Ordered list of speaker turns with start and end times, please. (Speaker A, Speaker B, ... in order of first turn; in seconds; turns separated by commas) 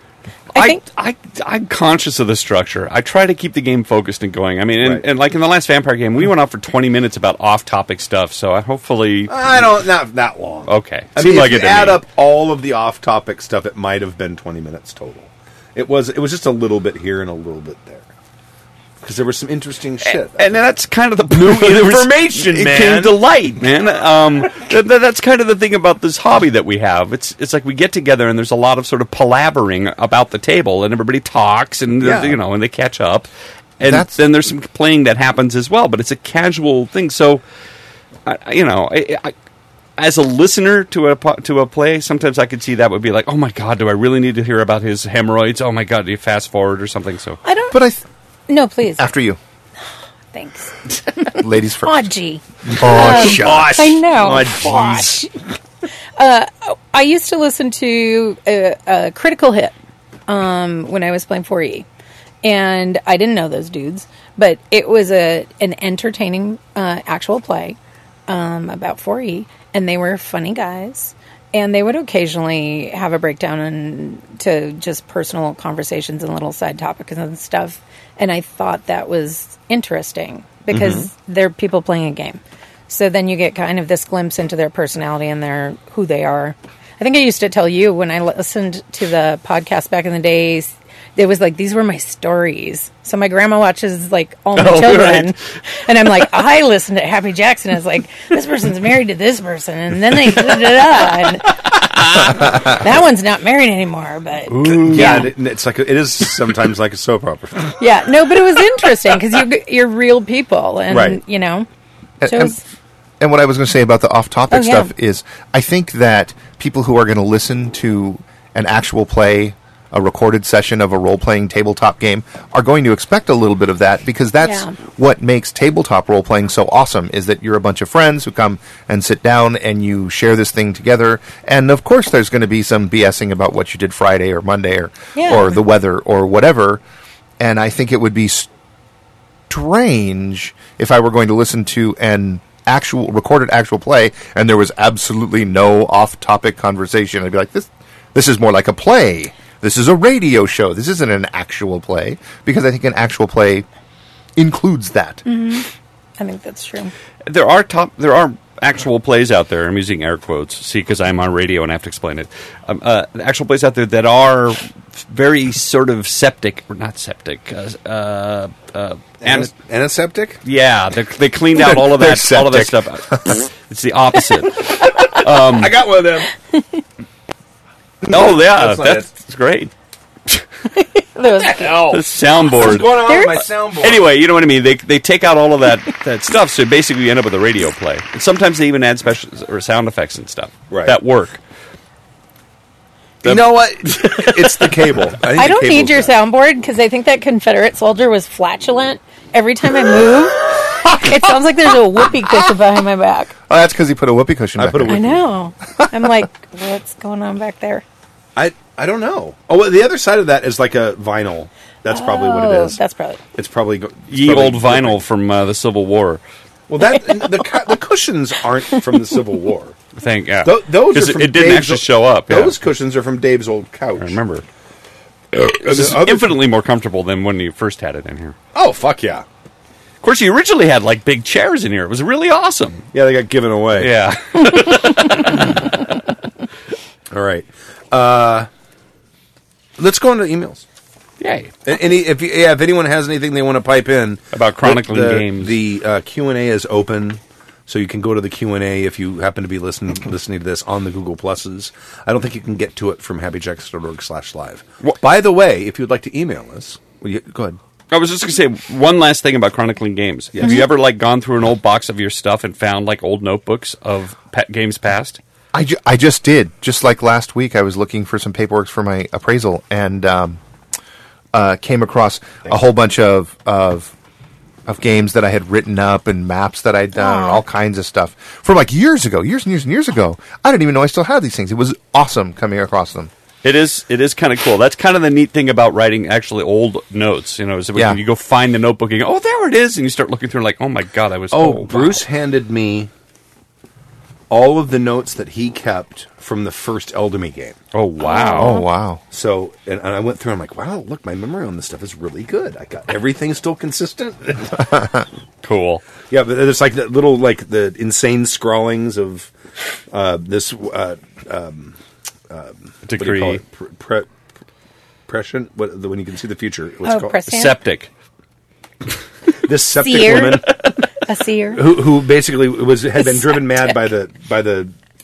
Speaker A: 0.5-9.7, Speaker B: 0.5-0.8, Speaker C: 9.3-18.1, Speaker A: 10.7-12.0, Speaker C: 19.0-20.6, Speaker A: 20.1-37.4, Speaker C: 21.3-23.2, Speaker C: 32.0-32.4, Speaker D: 33.8-34.1, Speaker A: 38.2-39.3, Speaker A: 40.0-47.4, Speaker B: 47.4-47.8, Speaker D: 47.7-48.0, Speaker B: 48.5-49.1, Speaker D: 49.0-49.4, Speaker B: 50.3-55.3, Speaker D: 51.3-52.1, Speaker C: 52.7-55.3, Speaker D: 52.7-54.0, Speaker B: 56.2-59.7, Speaker B: 60.3-61.9, Speaker B: 62.4-105.3, Speaker C: 80.7-81.1, Speaker A: 94.5-95.3, Speaker A: 104.5-105.3, Speaker C: 104.6-107.8, Speaker B: 107.8-111.7, Speaker C: 110.9-111.2, Speaker D: 112.2-112.6, Speaker B: 112.2-112.6, Speaker D: 113.2-136.8, Speaker B: 114.5-114.9, Speaker B: 124.4-124.7, Speaker B: 135.2-135.6, Speaker D: 137.4-138.5, Speaker D: 139.5-153.7, Speaker D: 154.3-155.2, Speaker B: 155.2-155.7, Speaker B: 156.2-156.9, Speaker A: 157.2-169.5, Speaker C: 169.2-170.4, Speaker A: 170.4-175.8, Speaker C: 171.7-172.7, Speaker D: 172.0-172.6, Speaker C: 175.1-176.3, Speaker C: 178.0-179.1, Speaker A: 178.1-179.7, Speaker B: 180.7-181.9, Speaker C: 181.4-184.0, Speaker A: 181.9-191.4, Speaker B: 182.9-183.4, Speaker C: 190.7-191.0, Speaker A: 193.2-194.8, Speaker C: 193.2-196.1, Speaker B: 195.3-203.3, Speaker D: 203.5-205.3, Speaker C: 204.6-205.2, Speaker B: 204.9-207.8, Speaker D: 205.8-206.1, Speaker C: 208.3-212.8, Speaker B: 211.9-213.2, Speaker C: 213.3-215.0, Speaker A: 214.1-216.2, Speaker C: 216.7-219.8, Speaker A: 219.9-222.5, Speaker C: 220.4-224.2, Speaker A: 224.0-224.4, Speaker C: 225.3-226.4, Speaker A: 225.3-228.3, Speaker C: 228.5-229.2, Speaker A: 230.0-232.9, Speaker C: 232.9-233.9, Speaker A: 233.8-235.8, Speaker C: 237.1-238.5, Speaker C: 239.8-240.6, Speaker A: 241.2-241.6, Speaker C: 241.6-257.6, Speaker A: 244.3-245.6, Speaker A: 257.9-265.2, Speaker C: 260.3-260.7, Speaker D: 265.5-270.4, Speaker D: 271.3-273.9, Speaker D: 274.6-283.1, Speaker B: 277.0-277.4, Speaker A: 283.4-292.0, Speaker D: 287.7-288.0, Speaker C: 291.3-292.9, Speaker C: 294.3-297.6, Speaker A: 297.7-298.6, Speaker B: 298.0-298.7, Speaker D: 298.3-299.0, Speaker C: 299.1-304.7, Speaker A: 305.4-305.8, Speaker C: 306.1-309.3, Speaker C: 309.9-311.8, Speaker C: 312.3-314.1, Speaker A: 312.9-313.4, Speaker C: 315.1-317.2, Speaker B: 316.8-317.6, Speaker A: 317.3-317.9, Speaker C: 319.4-320.5, Speaker B: 319.8-321.6, Speaker C: 321.5-324.7, Speaker B: 323.0-323.8